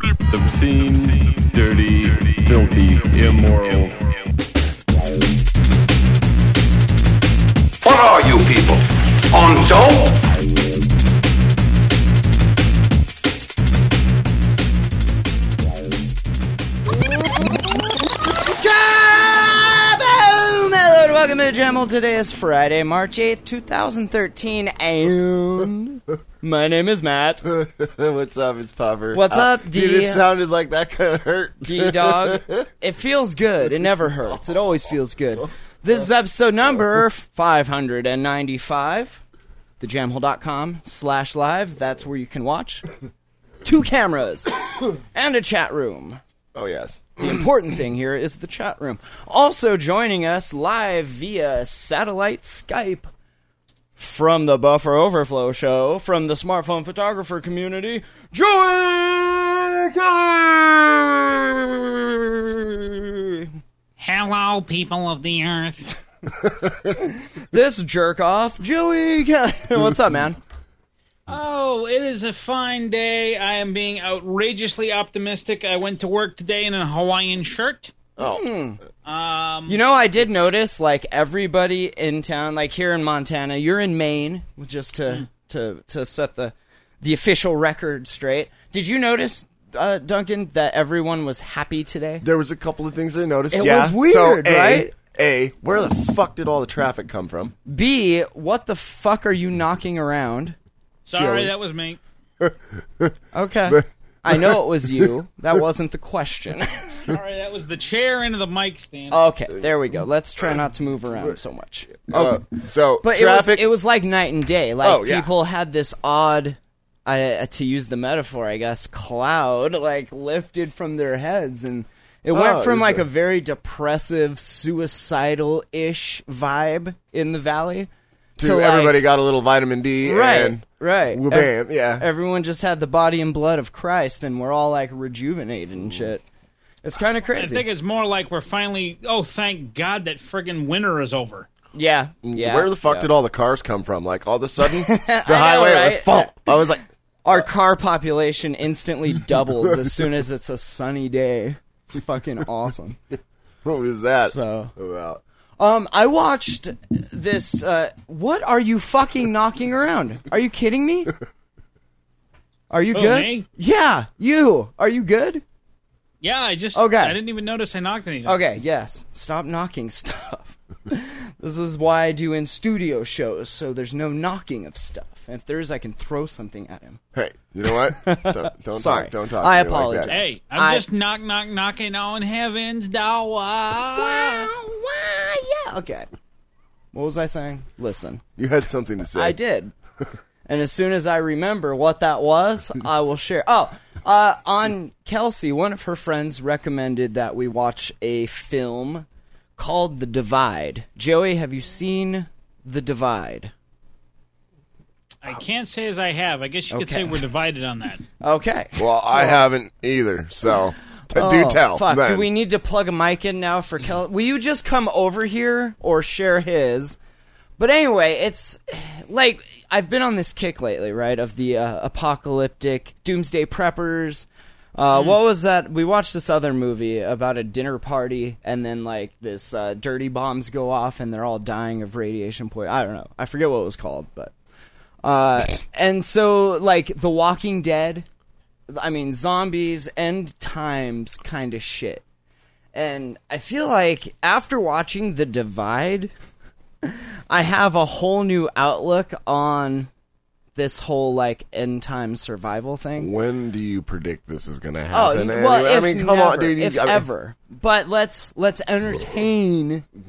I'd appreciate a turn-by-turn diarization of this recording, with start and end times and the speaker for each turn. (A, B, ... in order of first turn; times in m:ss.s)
0:00.3-0:04.2 A
0:07.8-0:10.3 B
0:18.4-0:27.4 C
0:27.4-0:32.7 D
0:29.1-0:30.2 C
0:31.6-0:39.2 C
0:39.8-0:42.8 C
0:43.6-0:46.2 C
0:46.5-0:47.4 D
0:47.2-0:53.1 C
0:54.0-1:01.7 C
1:03.2-1:03.4 C
1:04.0-1:06.0 E
1:06.8-1:10.4 C
1:11.3-1:17.9 E
1:18.2-1:18.4 D
1:18.2-1:18.8 C
1:19.0-1:19.8 E
1:19.7-1:32.2 C
1:32.2-1:37.6 D
1:33.5-1:34.9 C
1:37.7-1:40.6 C
1:41.0-1:42.0 E
1:41.1-1:41.5 D
1:42.4-1:43.1 D
1:43.3-1:47.0 C
1:43.7-1:45.1 D
1:47.1-1:49.2 E
1:49.1-1:52.5 C
1:52.1-1:53.7 D
1:53.0-2:09.0 C
1:54.8-1:55.3 D
2:02.3-2:03.0 D
2:08.4-2:12.1 D
2:10.0-2:16.2 C
2:16.8-2:17.7 C
2:17.4-2:21.5 E
2:21.8-2:23.1 C
2:22.2-2:26.8 D
2:24.6-2:26.6 C
2:27.2-2:33.0 C
2:33.6-2:35.2 D
2:34.2-2:34.7 C
2:35.6-2:41.1 C
2:42.7-2:45.4 C
2:42.9-2:43.5 E
2:46.2-2:48.4 E
2:46.8-2:47.2 C
2:48.2-2:57.0 C
2:57.1-3:00.2 D
2:57.7-3:00.9 C
3:00.1-3:04.5 E
3:03.9-3:06.1 C
3:06.9-3:08.2 C
3:08.4-3:09.4 D
3:09.1-3:09.7 C
3:10.5-3:19.1 C
3:19.6-3:23.5 C
3:25.2-3:28.0 E
3:26.7-3:27.2 C
3:28.2-3:29.4 C
3:28.8-3:32.3 D
3:31.1-3:37.0 C
3:37.6-3:54.3 C
3:44.9-3:45.2 E
3:55.0-3:58.1 C
3:58.7-4:02.0 C
4:02.7-4:06.1 C
4:06.8-4:09.9 C
4:10.6-4:13.1 C
4:13.0-4:17.0 D
4:14.9-4:19.9 C